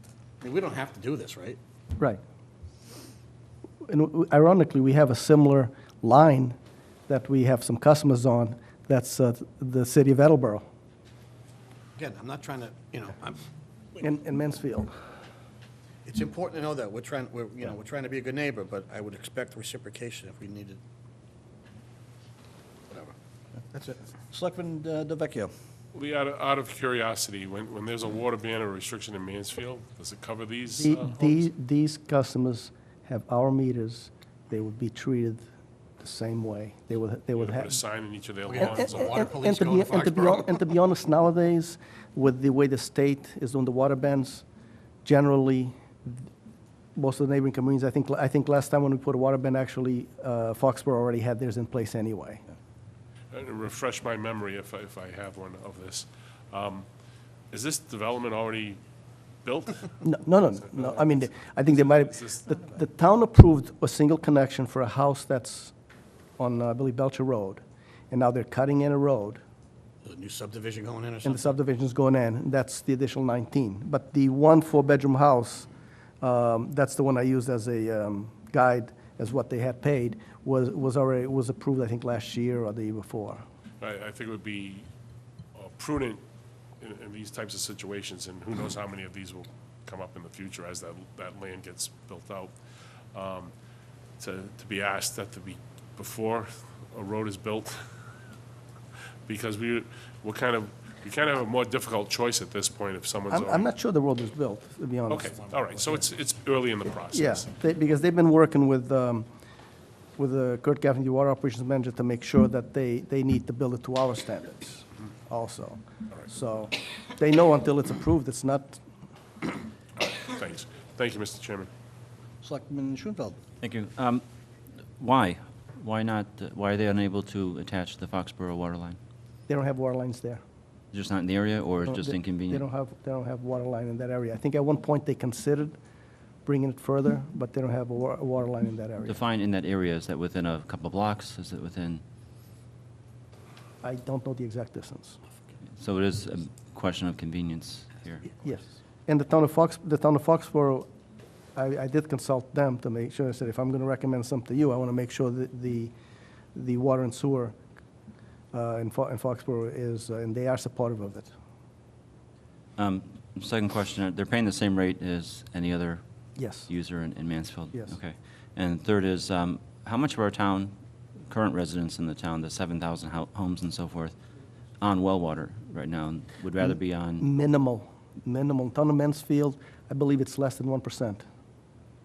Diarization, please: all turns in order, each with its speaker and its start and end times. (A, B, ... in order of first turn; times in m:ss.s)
0:00.4-0:01.6 A
0:03.9-0:06.6 B
0:07.1-0:10.7 B
0:12.0-0:13.4 A
0:14.0-0:14.9 B
0:16.0-0:20.8 A
0:23.7-0:24.0 A
0:24.3-0:25.5 C
0:25.9-0:31.4 D
0:30.8-0:35.4 B
0:36.0-0:37.8 B
0:37.4-0:39.2 D
0:38.5-0:40.6 A
0:38.6-0:44.4 B
0:45.0-0:46.2 B
0:47.0-0:52.4 B
0:53.3-0:56.9 D
0:57.5-0:58.8 D
0:59.4-1:00.0 D
1:00.0-1:05.7 B
1:00.7-1:02.5 D
1:06.4-1:09.4 B
1:10.0-1:11.6 A
1:11.2-1:15.7 B
1:16.2-1:23.4 B
1:23.8-1:24.9 D
1:25.6-1:26.2 D
1:26.8-1:32.6 D
1:33.1-1:33.5 D
1:34.2-1:37.9 D
1:39.3-1:43.7 D
1:43.3-1:45.3 B
1:45.1-1:47.5 D
1:45.4-1:46.0 A
1:47.1-1:49.3 B
1:50.2-1:58.8 B
2:00.0-2:01.7 D
2:02.4-2:03.4 C
2:03.6-2:04.2 E
2:05.0-2:09.0 E
2:09.5-2:10.4 B
2:10.9-2:12.6 E
2:11.9-2:15.8 B
2:16.4-2:19.2 B
2:19.0-2:22.0 E
2:23.8-2:25.2 B
2:25.8-2:28.3 E
2:28.4-2:30.9 B
2:31.6-2:35.9 B
2:36.5-2:37.6 B
2:38.5-2:41.3 B
2:42.8-2:46.0 E
2:46.4-2:46.7 B
2:46.7-2:50.8 E
2:51.3-2:54.2 E
2:54.8-2:57.2 E
2:56.7-3:01.2 B